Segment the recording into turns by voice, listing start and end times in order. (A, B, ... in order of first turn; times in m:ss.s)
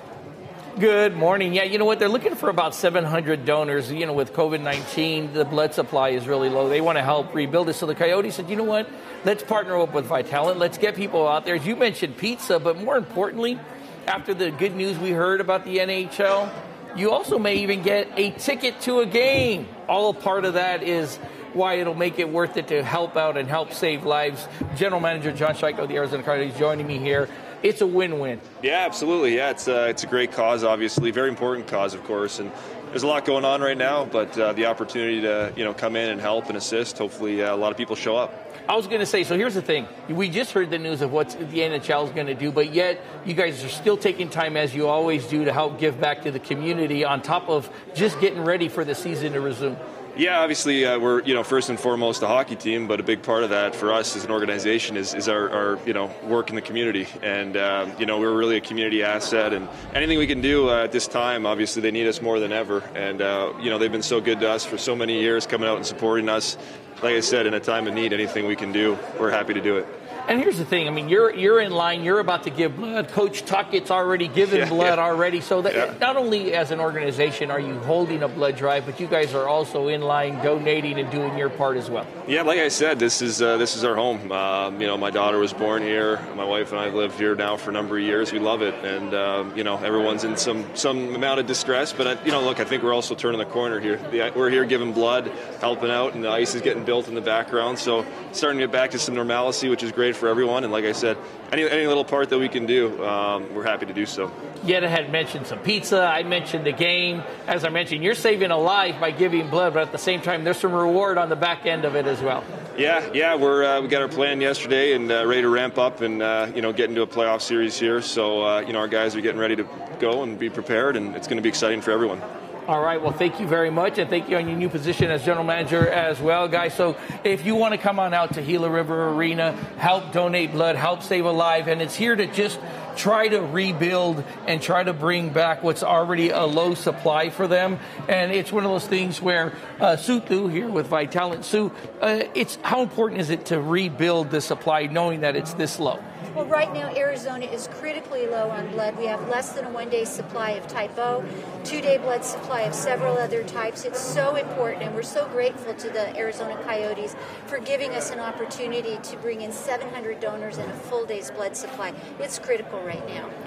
0:00.8-0:28.4 A
0:28.6-0:38.4 B
0:38.7-0:49.8 A
0:50.2-1:09.9 B
1:10.3-1:22.1 A
1:14.4-1:15.0 B
1:15.7-1:15.9 B
1:22.2-1:44.3 B
1:44.6-1:52.4 A
1:52.8-2:02.2 B
2:02.7-2:26.0 A
2:26.3-2:43.3 C